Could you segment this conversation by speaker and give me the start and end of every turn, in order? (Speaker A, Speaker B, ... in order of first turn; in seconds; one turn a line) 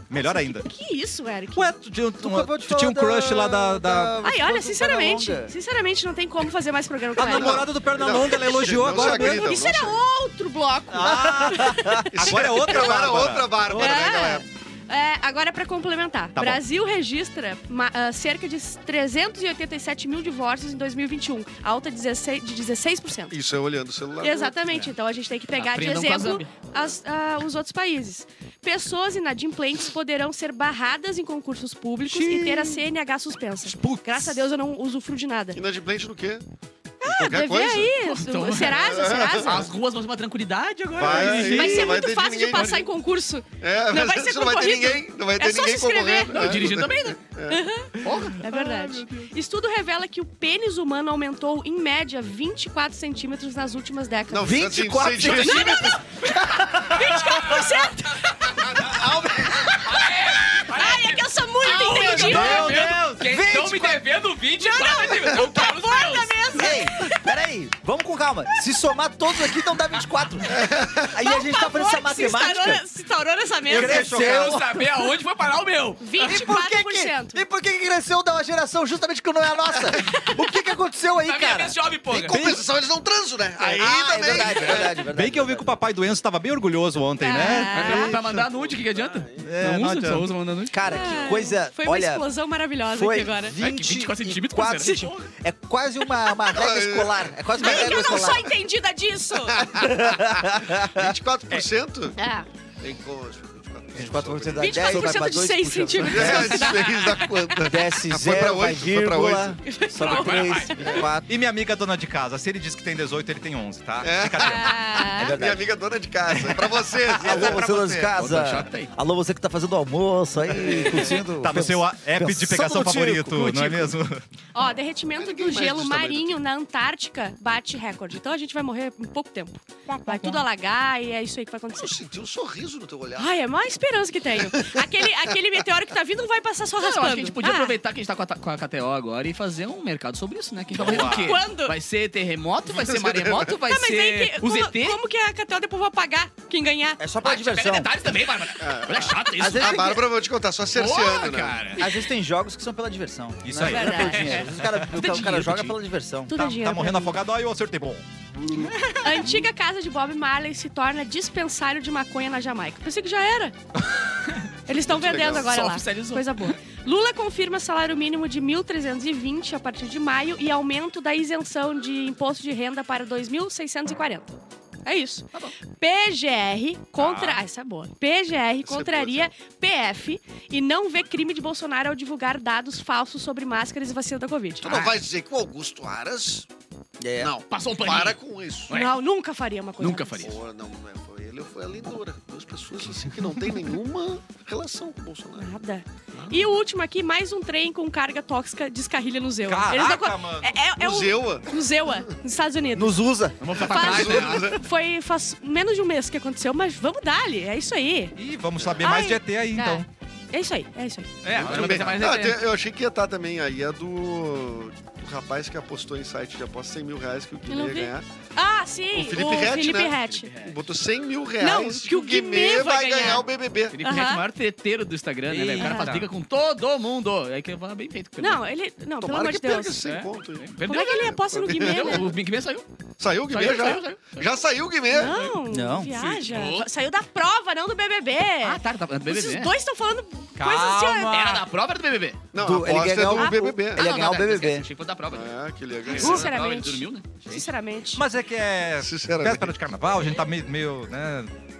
Speaker A: 0.1-0.7
Speaker B: 0.1-1.7
Speaker A: 1.6-4.2
Speaker C: 2.2-5.5
Speaker B: 4.2-7.7
Speaker A: 7.2-9.6
Speaker D: 7.2-10.0
Speaker B: 8.9-12.1
Speaker A: 10.9-14.1
Speaker C: 11.0-12.3
Speaker D: 12.1-14.4
Speaker B: 13.7-23.4
Speaker A: 16.4-16.6
Speaker D: 23.3-24.6
Speaker B: 24.2-35.6
Speaker E: 25.6-26.5
Speaker A: 32.1-32.8
Speaker A: 33.6-34.4
Speaker D: 35.5-36.4
Speaker B: 37.0-39.7
Speaker D: 37.0-37.9
Speaker E: 38.0-42.0
Speaker D: 38.6-39.7
Speaker D: 41.0-42.9
Speaker A: 41.1-41.7
Speaker B: 41.4-47.0
Speaker D: 43.6-48.2
Speaker E: 46.3-47.2
Speaker B: 47.5-62.8
Speaker E: 48.0-49.2
Speaker D: 54.3-56.0
Speaker C: 54.3-57.8
Speaker D: 58.5-59.8
Speaker E: 59.8-66.6
Speaker C: 62.0-64.0
Speaker A: 62.2-63.2
Speaker B: 64.6-67.2
Speaker C: 66.5-72.8
Speaker D: 70.5-71.1
Speaker B: 71.1-74.3
Speaker C: 73.6-74.8
Speaker A: 73.7-74.6
Speaker E: 73.8-76.3
Speaker B: 76.0-77.4
Speaker C: 76.2-81.8
Speaker E: 81.2-82.4
Speaker D: 82.1-85.1
Speaker A: 82.3-82.6
Speaker C: 83.6-85.8
Speaker A: 85.1-88.2
Speaker B: 87.2-88.2
Speaker E: 87.7-90.9
Speaker D: 88.3-89.5
Speaker A: 89.4-90.3
Speaker C: 89.5-90.1
Speaker C: 90.7-92.2
Speaker B: 90.9-93.6
Speaker D: 90.9-91.4
Speaker C: 92.9-98.5
Speaker E: 93.6-95.3
Speaker B: 94.8-95.1
Speaker D: 96.5-98.5
Speaker B: 97.5-99.7
Speaker D: 99.5-102.2
Speaker C: 99.7-101.2
Speaker B: 102.2-102.5
Speaker D: 102.8-105.2
Speaker C: 103.9-106.9
Speaker B: 104.6-107.5
Speaker D: 106.0-109.6
Speaker C: 107.6-111.3
Speaker B: 109.6-111.0
Speaker E: 110.0-110.8
Speaker D: 110.8-111.1
Speaker A: 111.3-115.0
Speaker D: 114.0-118.1
Speaker B: 114.4-115.3
Speaker C: 115.2-115.7
Speaker C: 117.1-124.0
Speaker A: 117.2-118.1
Speaker E: 118.2-118.9
Speaker D: 120.5-121.2
Speaker A: 120.9-124.2
Speaker B: 124.5-131.9
Speaker D: 125.1-126.4
Speaker C: 129.9-130.4
Speaker D: 131.7-133.4
Speaker B: 133.1-137.8
Speaker D: 134.4-135.1
Speaker E: 136.8-145.0
Speaker A: 140.7-141.4
Speaker B: 140.9-141.8
Speaker D: 142.7-143.6
Speaker B: 143.6-147.0
Speaker C: 147.0-147.9
Speaker E: 147.2-149.9
Speaker D: 148.6-151.9
Speaker C: 149.4-150.0
Speaker E: 150.7-151.9
Speaker C: 151.8-156.3
Speaker A: 153.4-154.8
Speaker B: 153.6-154.5
Speaker E: 154.1-155.8
Speaker B: 156.3-157.1
Speaker A: 156.3-158.1
Speaker D: 158.5-159.4
Speaker B: 158.7-163.6
Speaker B: 164.7-184.8
Speaker D: 164.7-165.6
Speaker E: 165.0-166.5
Speaker A: 177.0-177.4
Speaker D: 178.6-179.3
Speaker D: 184.6-186.4
Speaker E: 184.6-184.9
Speaker C: 187.0-187.3
Speaker D: 187.2-188.7
Speaker E: 187.4-188.9
Speaker B: 188.7-190.3
Speaker E: 189.8-190.4
Speaker D: 190.2-195.5
Speaker B: 195.4-203.0
Speaker D: 196.1-196.4
Speaker A: 199.5-200.6
Speaker D: 200.8-201.6
Speaker C: 202.7-203.4
Speaker E: 203.4-204.6
Speaker B: 203.6-208.1
Speaker D: 203.7-204.6
Speaker A: 208.2-209.9
Speaker B: 208.8-211.2
Speaker E: 211.2-212.4
Speaker D: 211.3-218.1
Speaker A: 211.3-211.9
Speaker B: 217.5-220.3
Speaker D: 218.9-223.8
Speaker E: 220.2-220.6
Speaker B: 221.4-223.3
Speaker E: 223.7-228.5
Speaker B: 223.8-224.2
Speaker A: 225.3-226.1
Speaker B: 225.6-225.9
Speaker B: 228.2-229.8
Speaker D: 229.0-232.1
Speaker E: 229.8-232.7
Speaker B: 230.6-232.1
Speaker D: 233.0-235.3
Speaker E: 233.3-234.3
Speaker B: 234.9-241.2
Speaker E: 235.0-235.4
Speaker C: 235.5-236.1
Speaker E: 236.0-236.7
Speaker E: 238.4-239.6
Speaker A: 240.4-241.4
Speaker E: 241.1-242.2
Speaker D: 242.3-243.8
Speaker C: 242.3-244.7
Speaker B: 243.1-244.1
Speaker E: 243.8-247.4
Speaker D: 245.1-246.3
Speaker B: 245.9-248.0
Speaker A: 247.9-251.3
Speaker D: 248.8-249.5